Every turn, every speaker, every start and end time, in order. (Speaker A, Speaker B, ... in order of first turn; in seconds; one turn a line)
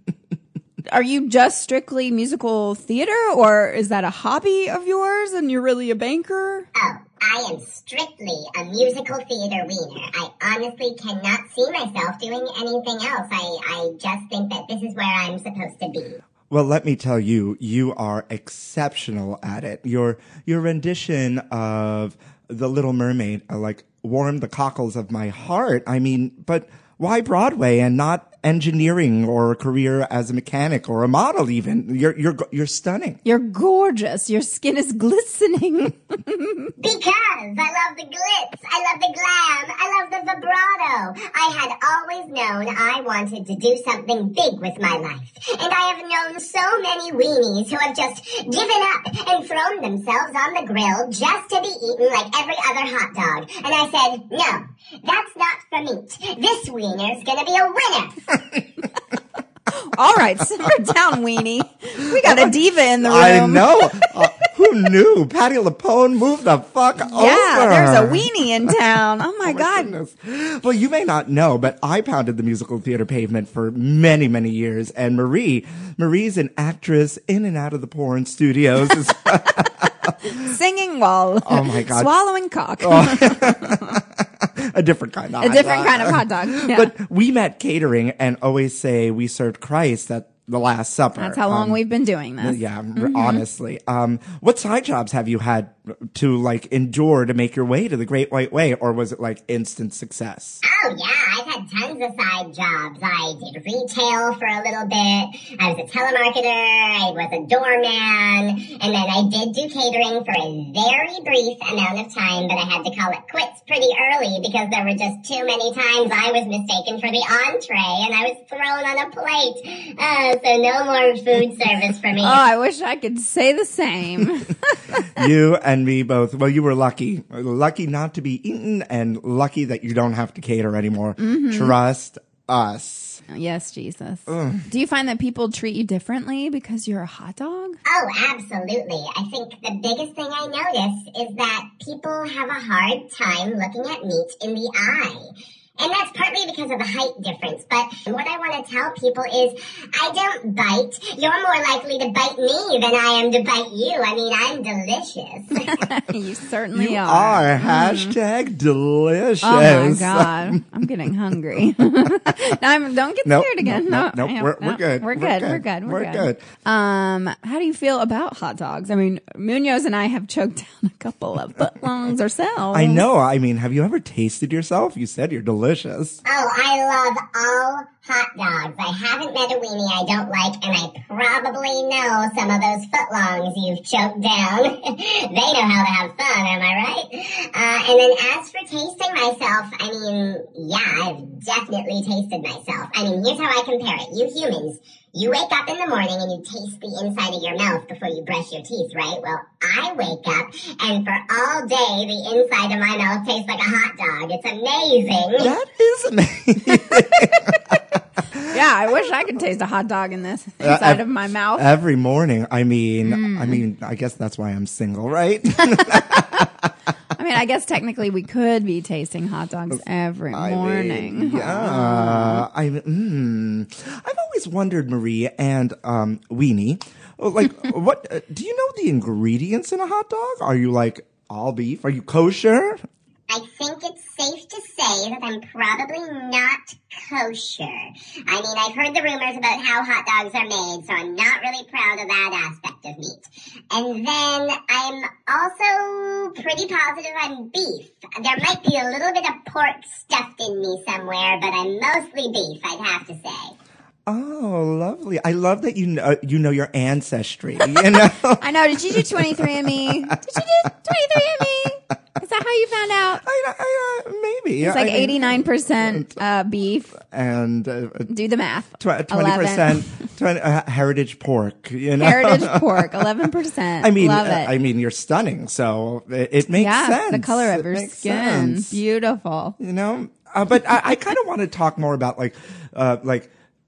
Speaker A: 0.9-6.7
Speaker B: 6.7-16.2
Speaker C: 16.5-33.2
Speaker A: 33.2-36.7
Speaker B: 36.8-58.3
Speaker A: 59.7-64.4
Speaker C: 62.1-68.8
Speaker A: 67.1-69.9
Speaker C: 69.4-80.4
Speaker A: 80.2-84.0
Speaker C: 81.4-82.1
Speaker C: 82.8-91.8
Speaker A: 85.4-86.9
Speaker A: 91.2-93.4
Speaker C: 92.4-100.6
Speaker B: 100.6-122.4
Speaker A: 122.2-125.2
Speaker C: 125.1-133.2
Speaker A: 131.2-131.8
Speaker A: 133.3-137.8
Speaker C: 134.3-134.7
Speaker B: 137.8-155.8
Speaker A: 155.5-158.2
Speaker C: 156.7-160.7
Speaker A: 159.4-173.0
Speaker C: 162.0-162.5
Speaker C: 163.2-166.4
Speaker C: 172.7-176.2
Speaker B: 176.2-205.5
Speaker C: 205.4-208.6
Speaker A: 208.5-211.7
Speaker C: 210.6-216.7
Speaker A: 213.0-213.6
Speaker A: 215.7-216.4
Speaker A: 217.2-222.4
Speaker C: 220.3-232.8
Speaker B: 233.3-253.5
Speaker C: 254.1-260.4
Speaker A: 257.6-263.2
Speaker C: 261.1-261.4
Speaker C: 263.2-266.2
Speaker A: 264.6-267.0
Speaker C: 267.0-268.1
Speaker A: 268.1-270.0
Speaker C: 268.8-273.1
Speaker A: 272.0-274.5
Speaker C: 273.8-278.8
Speaker A: 276.5-279.6
Speaker C: 279.6-283.3